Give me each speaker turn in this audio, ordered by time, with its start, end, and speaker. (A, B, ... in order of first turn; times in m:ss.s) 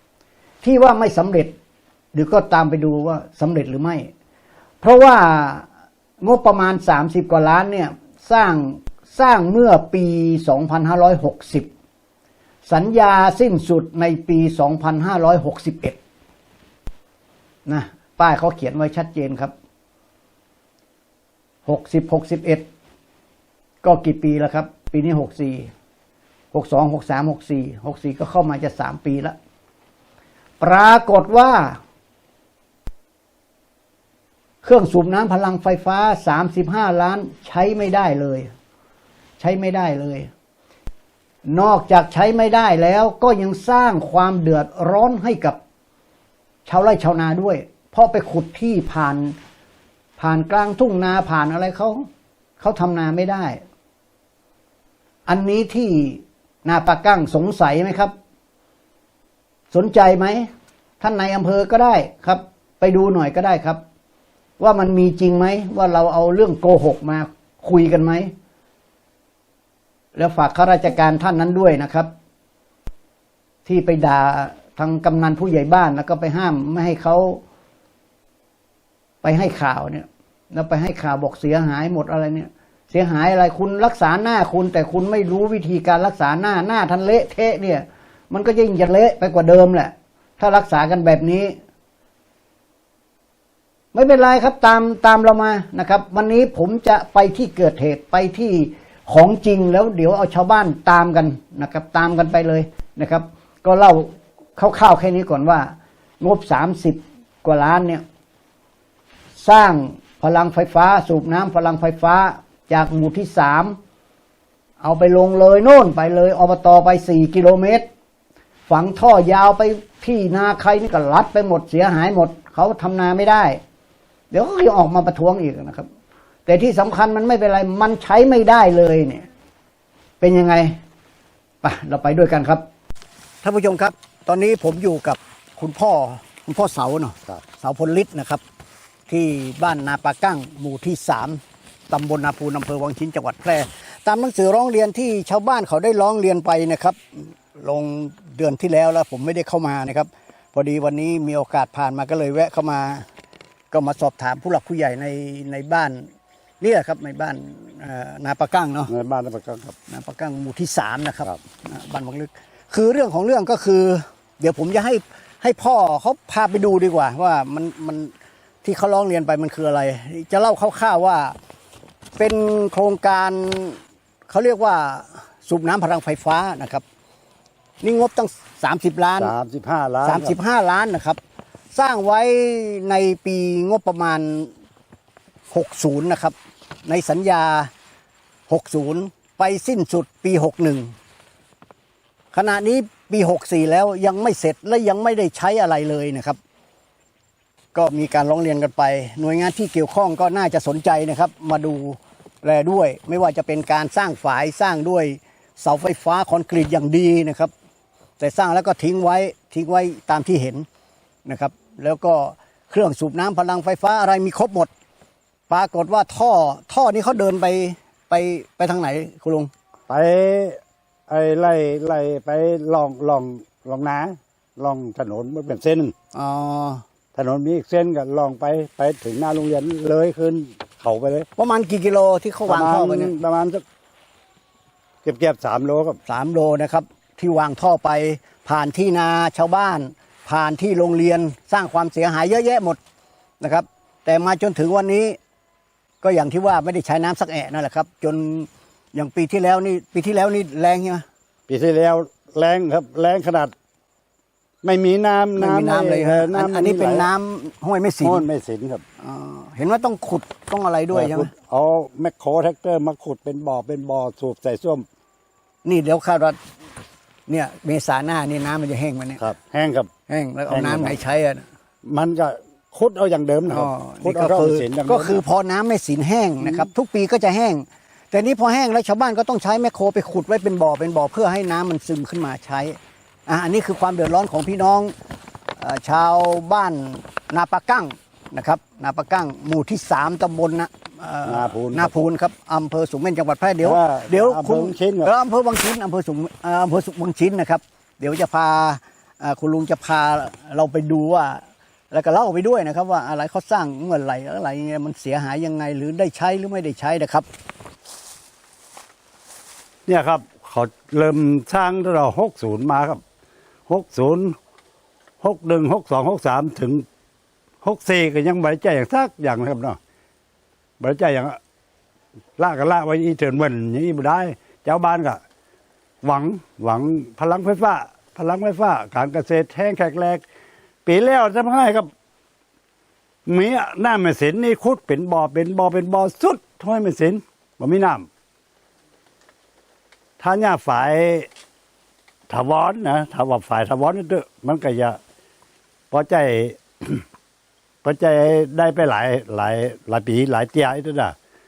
0:00.6-0:01.6 A
0:02.1-0:04.1 A
0:04.8-0:05.7 A
0:06.2-0:11.7 A
0:12.6-0:16.0 A
0:17.7-0:19.5 A
0:21.7-0:22.6 A
0:23.8-0:25.7 A
0:26.5-0:29.4 A
0:30.6-0:31.8 A
0:34.6-0:38.5 A
0:39.4-0:40.3 A
0:41.4-0:45.6 A
0:46.7-0:49.4 A
0:50.2-0:52.1 A
0:52.6-0:53.6 A
0:55.3-0:58.1 A
0:59.7-1:00.5 A
1:01.0-1:03.8 A
1:04.6-1:08.3 A
1:10.2-1:12.1 A
1:13.6-1:17.4 A
1:19.2-1:31.5 A
1:33.9-1:48.0 A
1:49.4-1:53.8 A
1:54.8-1:57.9 A
1:58.7-2:03.6 A
2:04.3-2:05.9 A
2:06.5-2:09.3 A
2:10.2-2:10.8 A
2:11.6-2:12.6 A
2:13.4-2:18.4 A
2:19.1-2:33.1 A
2:33.7-2:36.1 A
2:36.6-2:38.9 A
2:38.9-2:39.8 B
2:39.9-2:51.4 A
2:52.2-2:56.8 A
2:57.8-2:59.3 A
2:59.2-3:00.3 B
3:00.0-3:01.2 A
3:01.7-3:04.5 A
3:05.5-3:07.7 A
3:08.5-3:10.9 A
3:12.3-3:16.4 A
3:17.7-3:27.5 A
3:28.2-3:30.7 A
3:31.3-3:34.7 A
3:35.5-3:39.5 A
3:39.9-3:40.6 B
3:41.1-3:45.9 B
3:46.1-3:46.8 A
3:47.2-3:51.3 B
3:51.4-3:53.1 A
3:52.5-3:53.6 B
3:55.0-3:56.0 B
3:56.1-4:02.8 A
4:03.4-4:05.2 A
4:06.0-4:11.0 A
4:11.5-4:13.5 B
4:14.6-4:17.1 B
4:15.4-4:18.2 A
4:18.0-4:18.8 B
4:19.0-4:21.3 A
4:20.9-4:24.8 B
4:25.6-4:26.4 A
4:27.3-4:29.2 A
4:29.2-4:29.9 B
4:30.1-4:31.5 A
4:30.5-4:31.0 B
4:31.8-4:35.2 B
4:33.5-4:44.9 A
4:36.4-4:36.7 B
4:45.6-5:07.3 A
4:51.2-4:52.1 B
4:53.6-4:55.1 B
5:09.9-5:13.0 B
5:13.7-5:14.4 B
5:15.2-5:16.8 B
5:17.6-5:19.8 B
5:20.8-5:21.4 B
5:22.4-5:25.2 B
5:26.0-5:30.2 B
5:30.9-5:31.9 B
5:33.3-5:38.1 B
5:40.2-5:41.3 B
5:42.3-5:45.0 B
5:45.9-5:47.0 B
5:47.8-5:51.1 B